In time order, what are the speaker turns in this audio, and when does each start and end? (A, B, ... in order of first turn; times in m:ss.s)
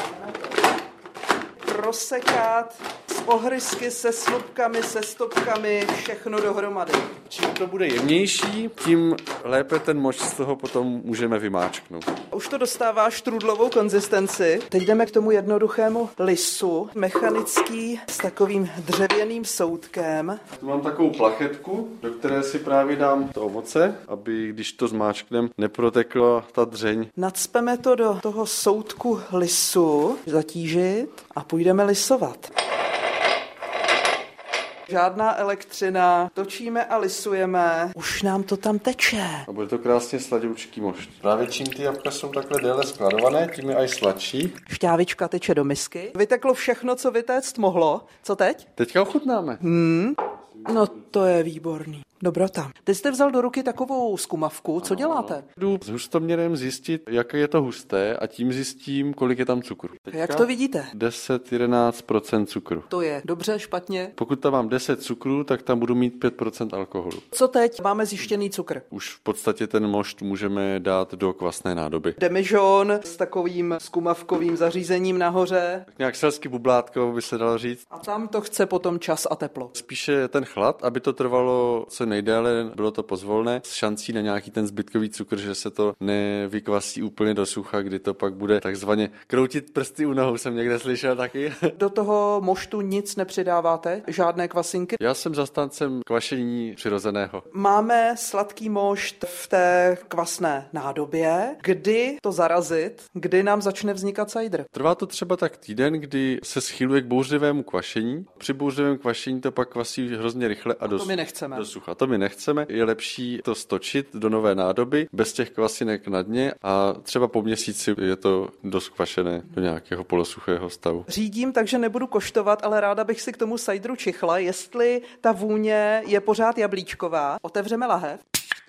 0:01.6-0:07.2 A
0:07.3-0:12.1 B
0:12.3-0:20.4 A
0:20.5-0:27.1 B
0:27.2-0:32.5 A
0:34.9-0:39.5 A
0:39.5-0:44.5 B
0:44.6-0:48.7 A
0:48.8-0:49.6 B
0:49.6-0:55.4 A
0:54.8-1:02.9 B
1:00.1-1:00.9 A
1:02.9-1:04.2 A
1:04.2-1:07.2 B
1:07.3-1:08.8 A
1:08.9-1:12.2 B
1:12.2-1:15.9 A
1:15.9-1:17.8 B
1:17.9-1:19.7 A
1:19.7-1:31.7 B
1:31.8-1:35.0 A
1:35.0-1:37.4 B
1:37.5-1:44.7 A
1:44.7-2:01.1 B
1:50.9-1:51.6 A
2:01.1-2:08.2 A